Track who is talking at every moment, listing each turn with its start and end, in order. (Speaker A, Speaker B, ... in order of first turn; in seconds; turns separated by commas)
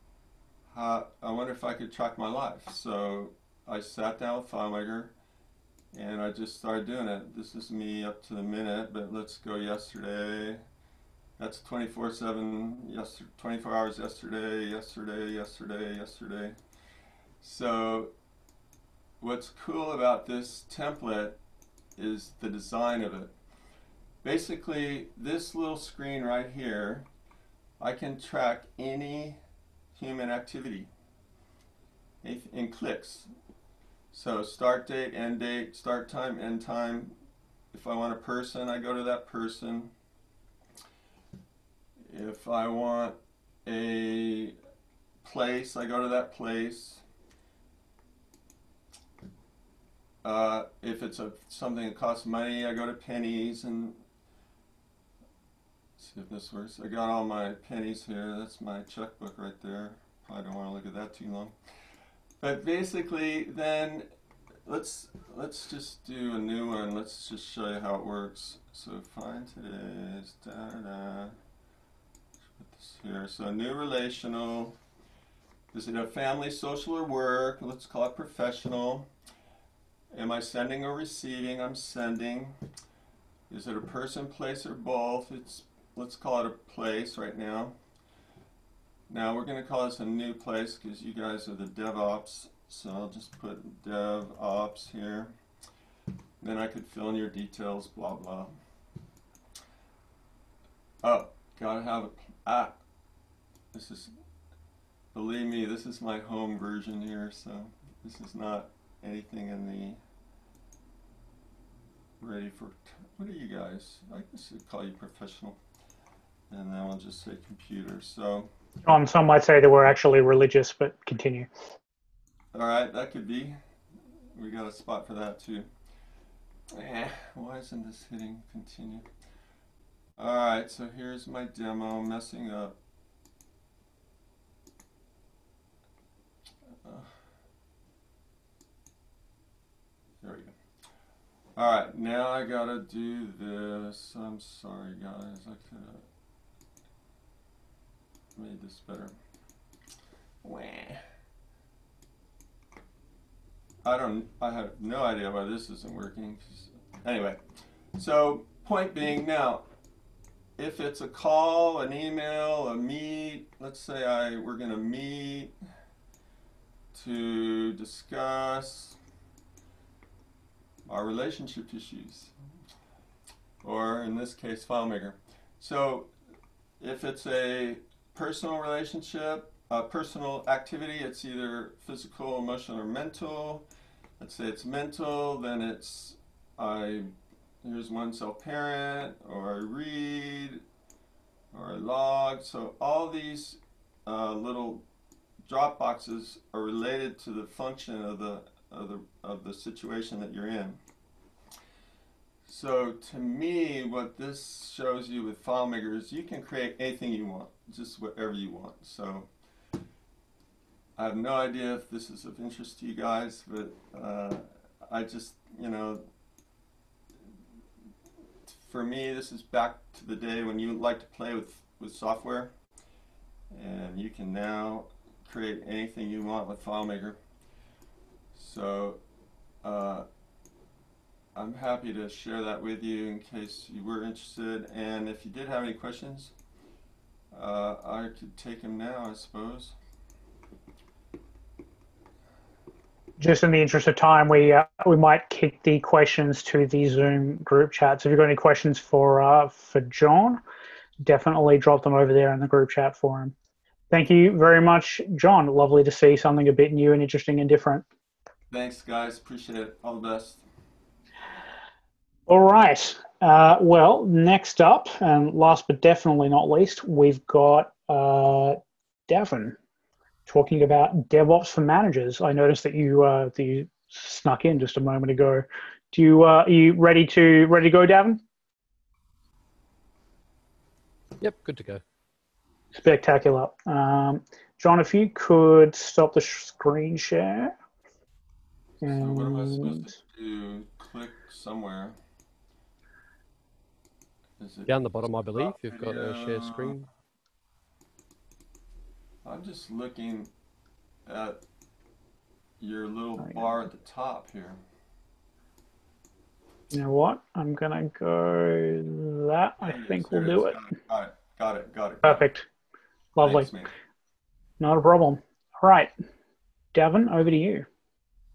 Speaker A: 0.7-5.1, Speaker A: 5.9-10.6, Speaker A: 11.4-16.6, Speaker A: 17.4-18.1, Speaker A: 19.2-21.4, Speaker A: 21.9-23.4, Speaker A: 24.2-27.1, Speaker A: 27.8-29.4, Speaker A: 29.9-30.9, Speaker A: 32.2-33.3, Speaker A: 34.1-37.1, Speaker A: 37.7-39.9, Speaker A: 42.0-44.5, Speaker A: 45.2-47.0, Speaker A: 50.2-54.0, Speaker A: 56.0-61.9, Speaker A: 62.4-64.1, Speaker A: 64.6-71.4, Speaker A: 72.6-74.8, Speaker A: 75.7-79.1, Speaker A: 80.1-82.6, Speaker A: 83.5-87.8, Speaker A: 89.1-95.3, Speaker A: 96.4-98.6, Speaker A: 101.0-102.8, Speaker A: 103.7-104.2, Speaker A: 105.1-110.0, Speaker A: 112.2-115.6, Speaker A: 116.5-118.5, Speaker B: 118.8-121.5, Speaker A: 122.5-123.6, Speaker A: 124.3-125.7, Speaker A: 126.7-129.1, Speaker A: 130.2-132.8, Speaker A: 136.8-137.2, Speaker A: 140.2-140.6, Speaker A: 141.5-146.0, Speaker A: 148.3-149.2, Speaker A: 150.4-151.0, Speaker A: 153.8-159.7, Speaker A: 160.6-165.5, Speaker A: 166.9-169.0, Speaker A: 170.8-172.3, Speaker A: 173.6-176.1, Speaker A: 176.8-183.7, Speaker A: 184.2-190.6, Speaker A: 191.5-194.8, Speaker A: 195.4-200.8, Speaker A: 202.4-209.3, Speaker A: 210.9-216.1, Speaker A: 218.4-222.5, Speaker A: 223.5-227.2, Speaker A: 228.3-229.0, Speaker A: 229.6-230.1, Speaker A: 231.3-236.3, Speaker A: 237.3-239.8, Speaker B: 243.2-250.4, Speaker B: 251.0-253.3, Speaker B: 253.9-257.8, Speaker A: 258.5-260.4, Speaker B: 262.3-269.6, Speaker B: 270.3-278.2, Speaker C: 281.2-281.8, Speaker B: 282.8-287.5, Speaker B: 288.8-289.9, Speaker A: 288.8-292.0, Speaker A: 294.4-296.8, Speaker C: 294.6-296.9, Speaker A: 299.2-300.3, Speaker A: 301.1-301.4, Speaker A: 302.6-304.6, Speaker B: 306.7-310.6, Speaker A: 309.6-312.3, Speaker B: 312.0-312.4, Speaker B: 313.1-313.5, Speaker A: 313.2-313.7, Speaker B: 314.6-315.9, Speaker B: 316.7-317.6